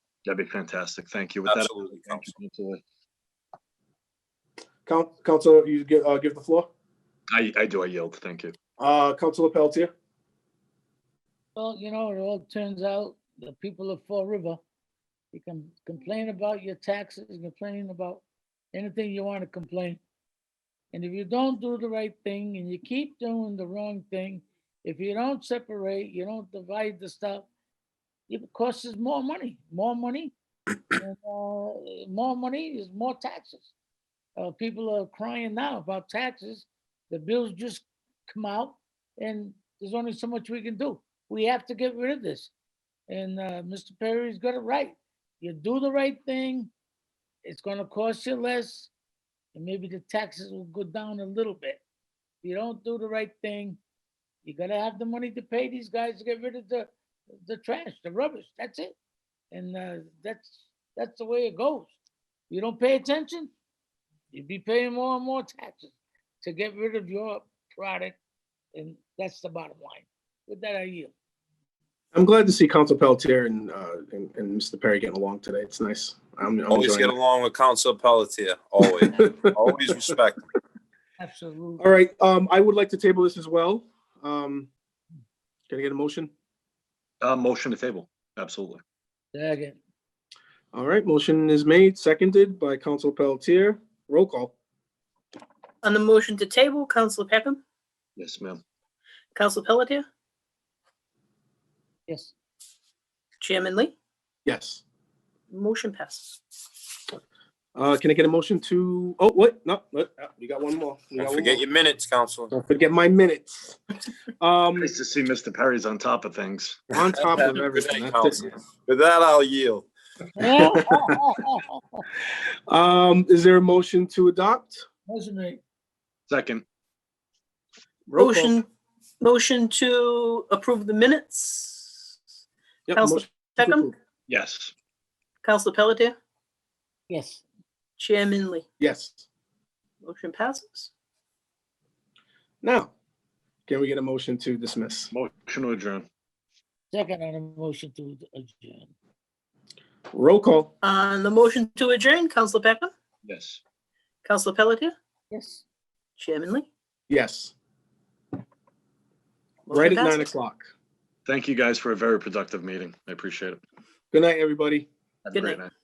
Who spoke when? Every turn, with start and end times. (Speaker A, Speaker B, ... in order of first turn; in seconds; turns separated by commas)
Speaker A: 0.2-2.8, Speaker B: 1.5-2.3, Speaker C: 4.8-6.7, Speaker A: 7.3-8.5, Speaker C: 8.8-9.9, Speaker D: 11.5-14.6, Speaker D: 15.3-20.0, Speaker D: 20.9-27.5, Speaker D: 28.3-30.3, Speaker D: 31.0-33.7, Speaker D: 34.4-42.5, Speaker D: 43.1-46.7, Speaker D: 47.4-48.9, Speaker D: 49.5-51.8, Speaker D: 52.4-53.8, Speaker D: 54.4-56.9, Speaker D: 57.4-59.0, Speaker D: 59.5-61.9, Speaker D: 62.5-63.5, Speaker D: 64.3-68.2, Speaker D: 68.7-71.1, Speaker C: 72.1-77.1, Speaker B: 76.7-80.4, Speaker D: 81.2-81.9, Speaker C: 81.8-84.7, Speaker C: 85.7-86.3, Speaker A: 87.2-88.8, Speaker D: 89.3-89.8, Speaker C: 90.7-94.5, Speaker E: 95.8-97.6, Speaker A: 98.2-98.6, Speaker E: 99.3-100.0, Speaker D: 102.1-102.3, Speaker E: 103.4-103.9, Speaker C: 104.5-104.8, Speaker E: 105.5-106.4, Speaker C: 107.7-111.6, Speaker B: 111.2-112.5, Speaker C: 112.6-113.8, Speaker C: 114.4-114.9, Speaker A: 114.8-116.8, Speaker C: 116.9-118.5, Speaker B: 117.2-119.8, Speaker D: 120.4-122.0, Speaker C: 122.7-124.8, Speaker D: 125.0-125.6, Speaker A: 126.3-126.6, Speaker C: 128.1-128.5, Speaker E: 128.2-128.7, Speaker E: 129.2-132.1, Speaker C: 132.9-133.9, Speaker E: 132.9-133.9, Speaker A: 134.3-134.7, Speaker E: 135.4-136.1, Speaker D: 137.1-137.4, Speaker E: 138.0-138.6, Speaker C: 138.8-139.2, Speaker E: 140.0-140.9, Speaker C: 142.6-142.9, Speaker C: 143.7-145.1, Speaker A: 145.1-146.1, Speaker D: 146.9-148.9, Speaker C: 150.1-150.7, Speaker E: 150.8-152.9, Speaker A: 153.2-153.6, Speaker E: 154.2-154.9, Speaker D: 155.3-155.6, Speaker E: 156.2-156.7, Speaker C: 157.1-157.5, Speaker E: 159.7-160.3, Speaker C: 159.7-160.7, Speaker A: 161.2-163.6, Speaker C: 164.1-164.9, Speaker A: 165.2-165.7, Speaker E: 165.3-165.6